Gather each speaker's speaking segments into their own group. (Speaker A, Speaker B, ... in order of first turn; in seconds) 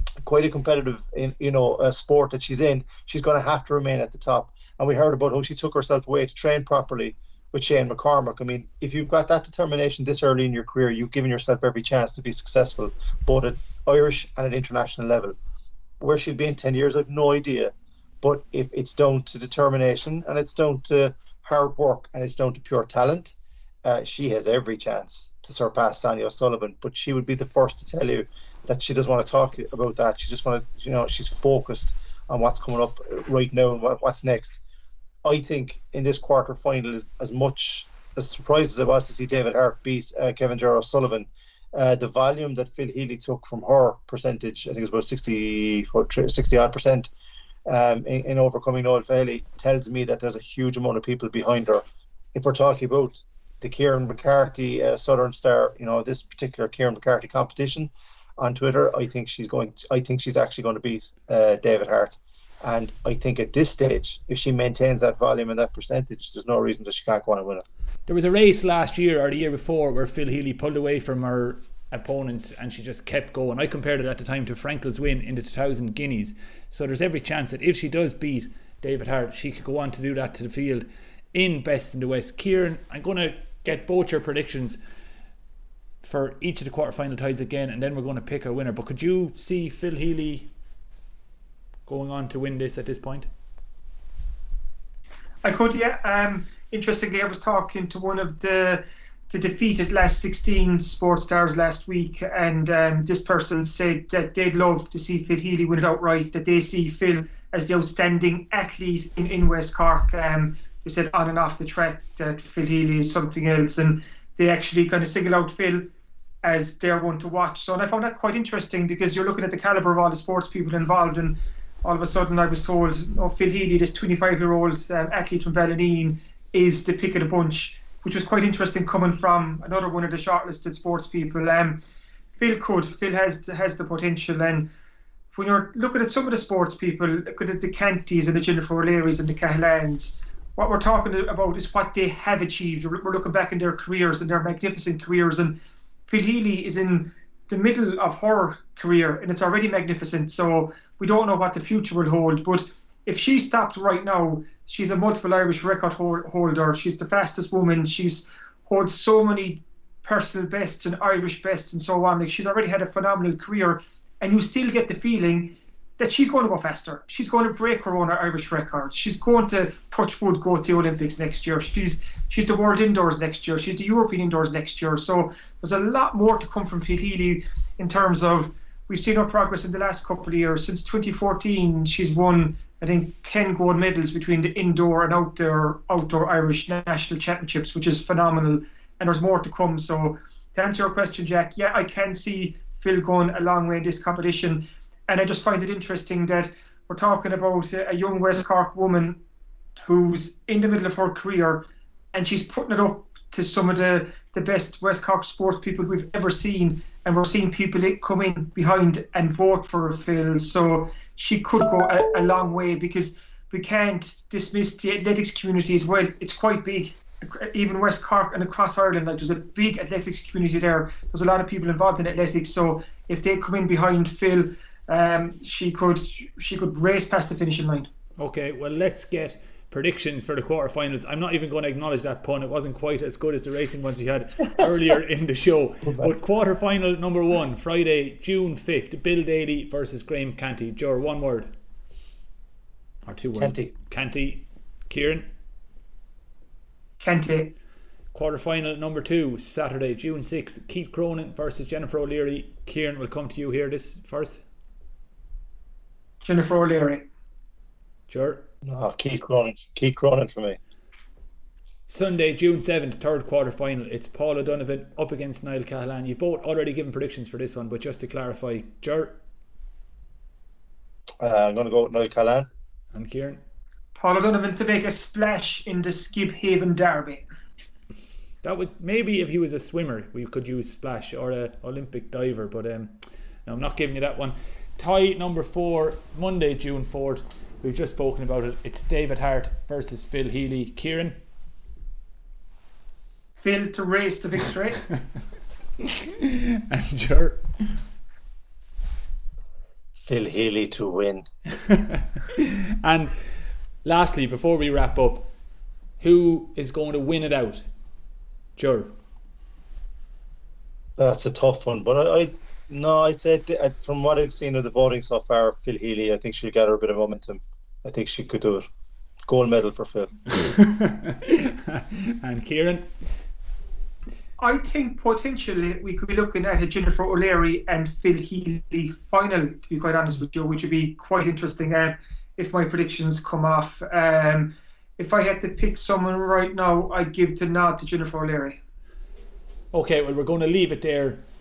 Speaker A: 0.2-15.3, 16.0-34.6, 35.2-47.1, 47.7-67.6, 235.8-236.1, 243.4-243.7, 258.6-260.6, 271.2-272.5, 300.0-301.2, 311.0-318.6, 319.3-320.1
Speaker B: 68.1-84.8, 86.0-90.5, 91.8-93.3, 228.2-241.5, 243.1-245.3, 248.1-254.4, 258.1-258.4, 261.9-269.2, 272.9-273.4, 278.4-282.9, 283.4-291.1, 296.2-297.8, 301.7-303.1, 303.8-305.3, 306.0-307.6, 308.6-308.9, 320.3-322.9, 339.7-341.2
Speaker C: 95.4-115.8, 116.4-131.8, 132.4-134.7, 135.3-199.2, 199.8-227.9, 247.0-247.5, 256.2-257.1, 273.9-277.2, 293.4-294.8, 324.4-338.6